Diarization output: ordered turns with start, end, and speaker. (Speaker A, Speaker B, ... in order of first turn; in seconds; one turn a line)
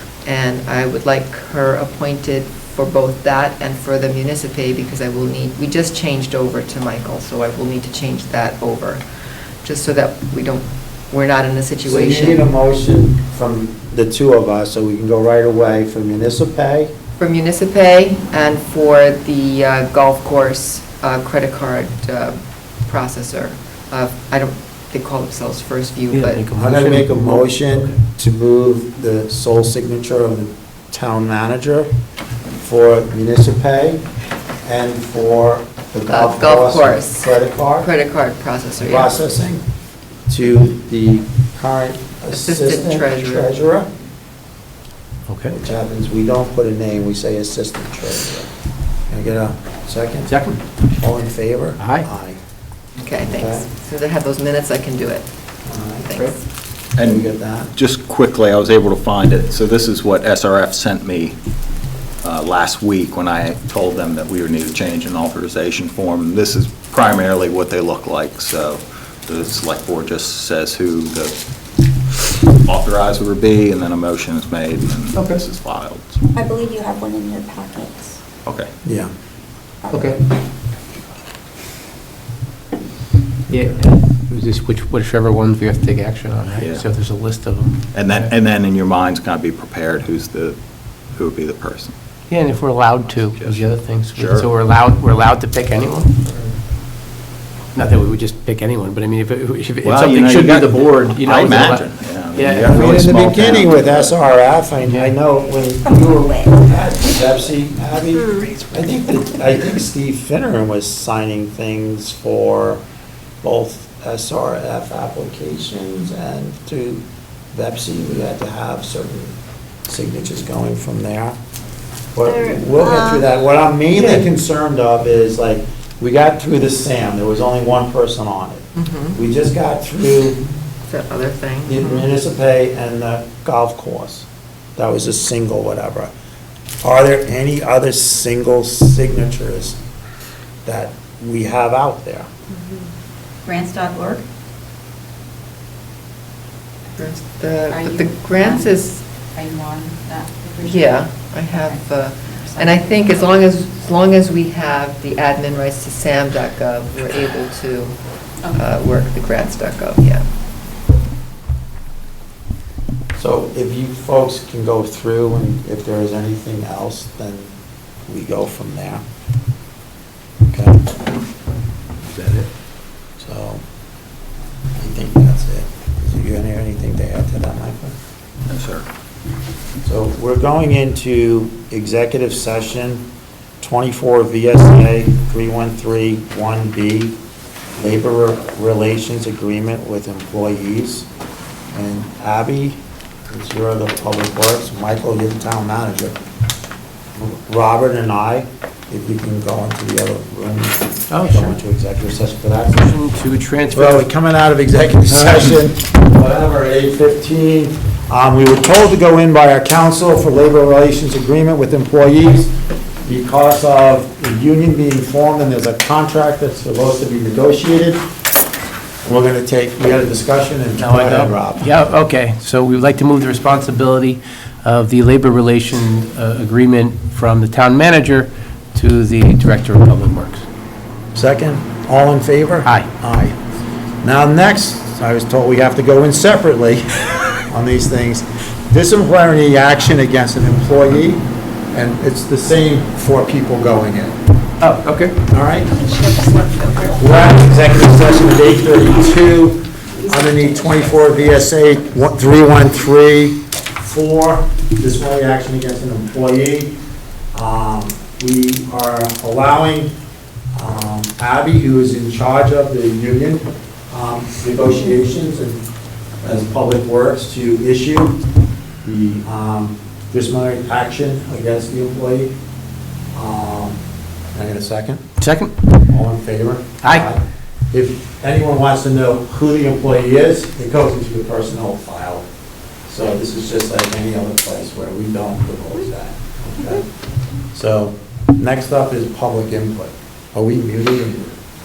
Speaker A: 0.2-9.0
Speaker A: 9.6-12.4
Speaker B: 11.8-16.9
Speaker A: 17.2-26.4
Speaker C: 26.1-27.9
Speaker B: 26.5-31.9
Speaker B: 32.6-34.0
Speaker B: 34.6-37.9
Speaker A: 36.1-39.1
Speaker B: 38.8-39.6
Speaker B: 40.3-43.9
Speaker A: 42.3-43.5
Speaker C: 45.3-45.6
Speaker B: 45.5-48.5
Speaker B: 49.1-50.3
Speaker C: 50.3-50.6
Speaker B: 51.0-52.4
Speaker C: 51.8-52.1
Speaker A: 53.0-55.3
Speaker B: 53.2-53.6
Speaker B: 55.6-56.3
Speaker A: 56.0-56.4
Speaker B: 57.0-57.7
Speaker D: 57.0-61.4
Speaker D: 62.2-71.4
Speaker D: 72.1-76.2
Speaker C: 75.1-75.4
Speaker E: 76.3-78.2
Speaker D: 78.4-78.7
Speaker B: 78.8-79.1
Speaker E: 79.8-80.2
Speaker C: 79.9-80.2
Speaker B: 83.5-83.8
Speaker C: 83.5-88.3
Speaker D: 86.6-86.8
Speaker D: 87.9-90.6
Speaker D: 91.1-91.9
Speaker C: 92.3-96.5
Speaker D: 93.4-93.6
Speaker D: 94.1-94.5
Speaker C: 97.7-103.0
Speaker D: 99.8-104.1
Speaker B: 102.7-112.8
Speaker C: 104.9-105.1
Speaker E: 108.2-108.5
Speaker B: 113.4-119.3
Speaker B: 119.9-121.4
Speaker B: 122.1-130.4
Speaker E: 122.2-123.3
Speaker C: 123.9-124.3
Speaker A: 128.7-129.2
Speaker A: 130.8-132.1
Speaker B: 131.7-136.1
Speaker B: 136.8-139.8
Speaker B: 140.6-142.3
Speaker F: 143.4-144.2
Speaker A: 146.9-149.0
Speaker F: 147.7-151.8
Speaker A: 150.6-158.0
Speaker F: 152.4-153.3
Speaker A: 158.5-160.2
Speaker B: 163.1-167.5
Speaker B: 168.1-169.0
Speaker B: 170.5-170.9
Speaker C: 172.0-172.5
Speaker B: 173.2-173.6
Speaker B: 174.8-177.9
Speaker D: 178.5-178.8
Speaker B: 179.8-183.1
Speaker B: 183.6-187.2
Speaker B: 187.8-191.1
Speaker B: 191.7-196.2
Speaker B: 197.2-203.0
Speaker C: 201.1-201.6
Speaker C: 202.7-204.0
Speaker B: 203.7-212.5
Speaker C: 205.1-205.5
Speaker B: 213.0-218.0
Speaker B: 219.0-221.7
Speaker C: 220.8-230.4
Speaker B: 231.1-233.4
Speaker B: 234.0-236.9
Speaker B: 237.5-244.2
Speaker C: 244.6-245.1
Speaker B: 245.3-245.7
Speaker E: 245.8-247.0
Speaker B: 246.9-256.8
Speaker E: 250.1-250.7
Speaker B: 257.3-259.9
Speaker B: 260.5-265.6
Speaker B: 266.2-268.2
Speaker B: 268.8-272.3
Speaker B: 273.1-273.8
Speaker B: 274.3-275.0
Speaker C: 275.2-275.5
Speaker B: 275.9-282.2
Speaker C: 276.8-277.1
Speaker B: 282.9-286.9
Speaker B: 287.5-291.4